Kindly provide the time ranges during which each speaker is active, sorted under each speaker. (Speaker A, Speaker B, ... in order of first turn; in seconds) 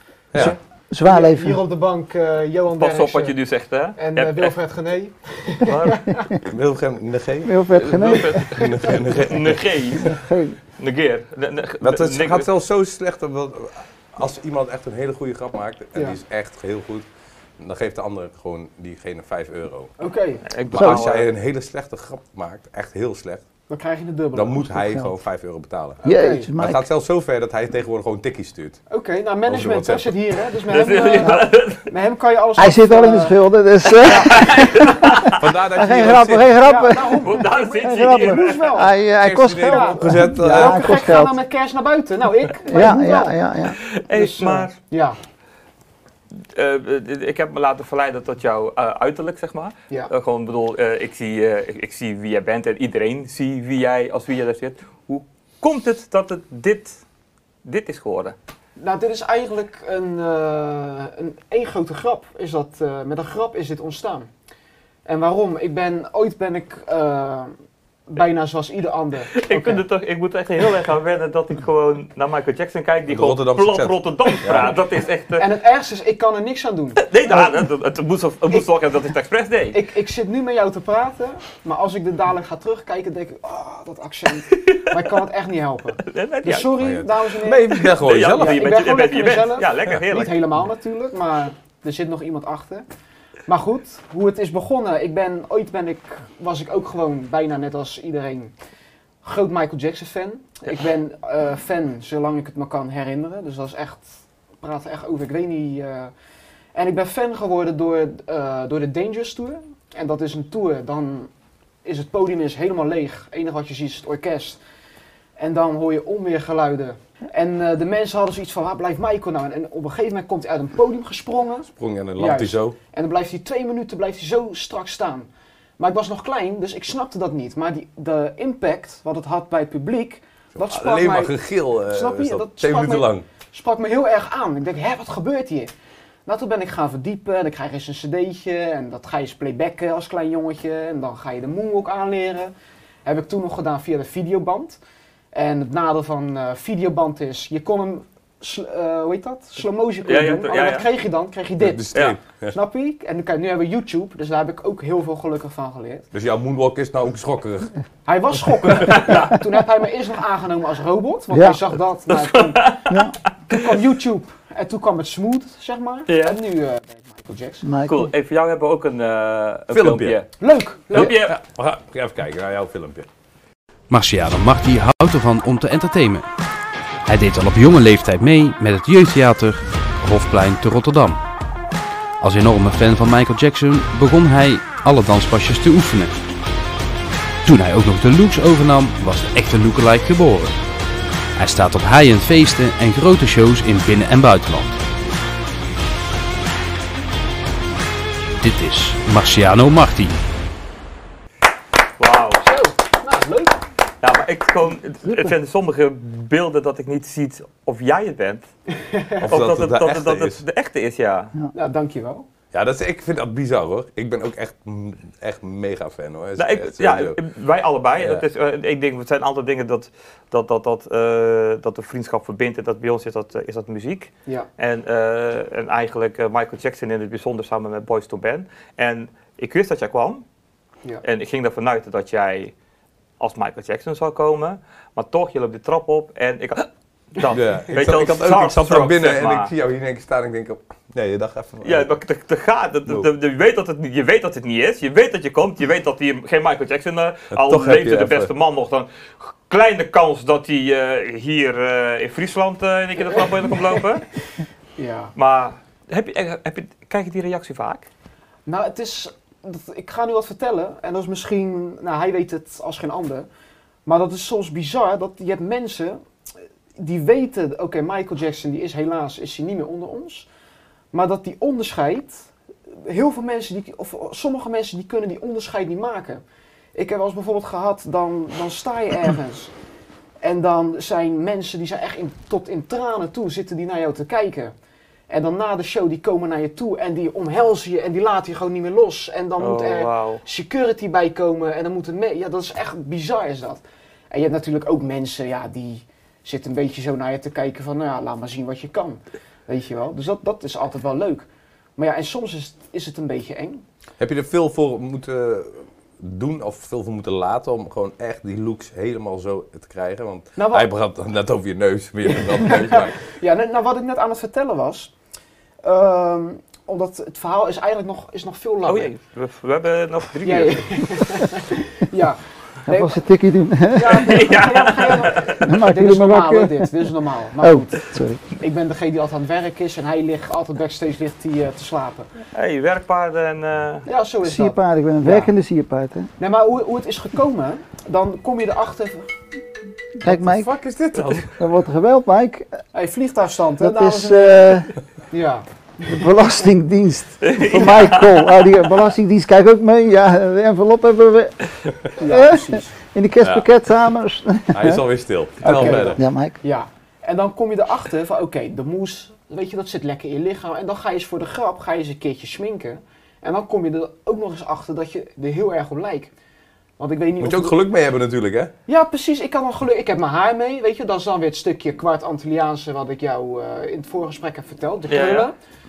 Speaker A: 0.3-3.4, 4.0-6.3, 20.0-20.5, 23.7-24.9, 26.0-26.5, 28.9-33.4, 36.6-39.0, 39.5-43.4, 44.1-45.2, 58.8-64.3, 65.0-67.5, 68.1-69.8, 75.4-77.6, 79.7-92.8, 93.5-98.5, 99.2-104.1, 104.6-106.1, 106.7-111.3, 111.8-114.6, 115.4-135.7, 136.2-142.5, 143.0-144.8, 145.3-151.9, 152.5-156.1, 158.1-162.9, 163.5-167.7, 170.4-171.1, 202.4-203.6, 208.8-209.3, 211.5-212.3, 254.8-255.1, 258.4-263.3, 263.9-266.0, 266.8-270.3, 270.9-276.2, 276.7-279.5, 280.2-284.5, 285.1-303.6, 310.4-310.7, 312.2-314.9, 315.6-318.9, 320.2-323.0, 323.7-332.1, 333.8-335.3, 336.2-339.1, 340.0-341.3, 342.7-345.5, 352.0-352.7, 355.4-366.1, 366.8-367.6, 368.7-375.3
Speaker B: 0.4-1.6, 7.4-8.5, 10.0-10.6, 20.7-21.0, 26.0-26.9, 31.2-31.4, 32.6-41.4, 42.6-43.8, 161.3-161.6, 162.9-163.1, 167.6-168.1, 322.7-324.4, 325.4-328.2, 334.2-336.1, 340.0-340.5, 341.3-342.6, 343.6-344.7, 345.8-351.4, 352.0-354.8, 355.4-356.4
Speaker C: 2.8-4.5, 5.7-6.0, 7.7-10.1, 10.8-12.5, 20.5-21.3, 30.7-31.9, 34.0-35.3, 37.2-38.7, 43.7-44.7, 46.3-57.0, 57.6-58.3, 69.3-75.5, 77.0-79.8, 84.5-84.9, 86.0-86.9, 87.7-90.4, 150.0-150.9, 158.8-159.3, 162.1-163.6, 166.1-166.4, 167.9-170.3, 170.9-171.4, 202.0-202.4, 204.0-208.5, 209.3-211.3, 216.4-230.2, 231.0-232.5, 233.2-239.5, 241.6-254.0, 255.2-257.9, 289.4-290.2, 318.6-320.7, 323.8-325.4, 332.3-333.9, 340.9-341.2, 347.2-348.3, 374.9-375.3
Speaker D: 6.4-9.6, 11.8-17.1, 17.6-19.9, 20.7-23.4, 24.3-26.0, 26.6-28.8, 29.5-30.1, 35.3-36.6, 39.2-40.9, 73.1-74.7, 86.8-88.7, 121.8-122.8, 130.5-133.3, 151.6-152.5, 156.1-157.7, 169.7-170.2, 170.9-173.1, 209.2-210.4, 212.5-217.2, 218.0-218.2, 237.3-241.9, 247.3-248.3, 304.0-313.0, 354.5-356.0, 367.2-368.5
Speaker E: 173.9-176.2, 177.1-181.2, 182.2-186.1, 187.4-190.6, 191.3-194.8, 198.4-200.2